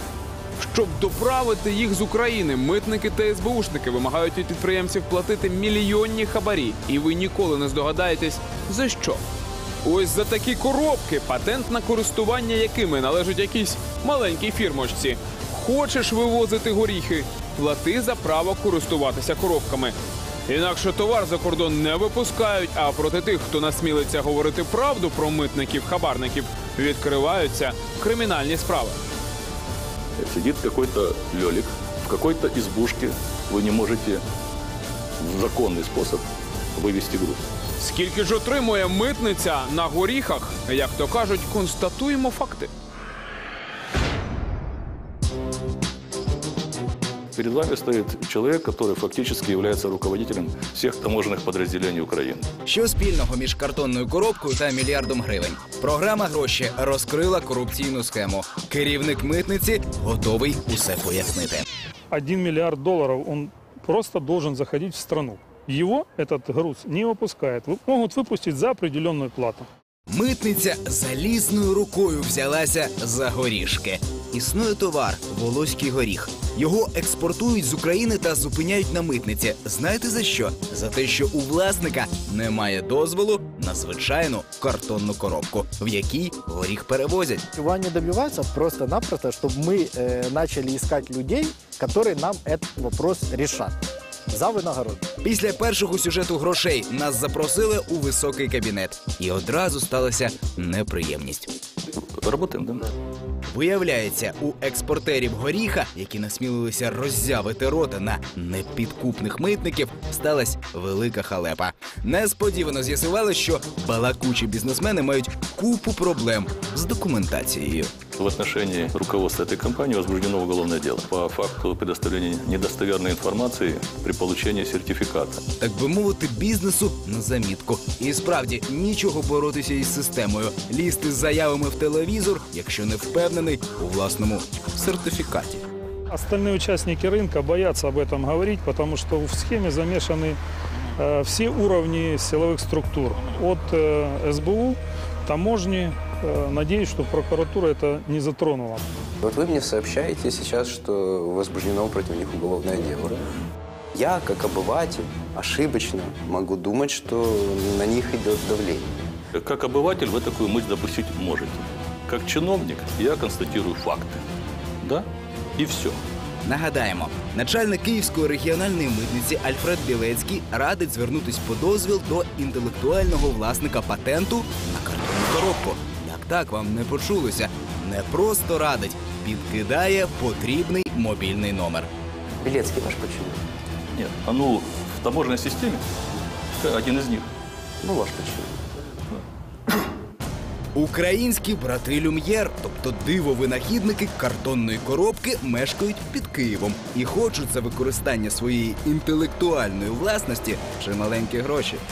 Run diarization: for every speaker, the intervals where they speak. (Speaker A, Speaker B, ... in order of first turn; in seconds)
Speaker A: 0.6-9.2, 9.8-29.0, 37.8-42.7
Speaker B: 30.2-34.2, 35.2-37.4, 47.3-52.5, 102.2-102.9, 118.2-125.4, 159.3-164.2, 164.8-166.0, 183.9-185.8, 186.6-187.3
Speaker C: 52.6-61.6, 70.1-87.4, 95.2-101.5, 103.5-117.9, 125.6-135.6, 166.4-181.9, 190.7-201.8
Speaker D: 62.1-69.7, 136.1-140.4, 141.0-148.8
Speaker E: 87.5-93.7, 94.3-95.0
Speaker F: 149.2-153.3, 153.9-158.9, 182.4-183.4, 187.8-188.6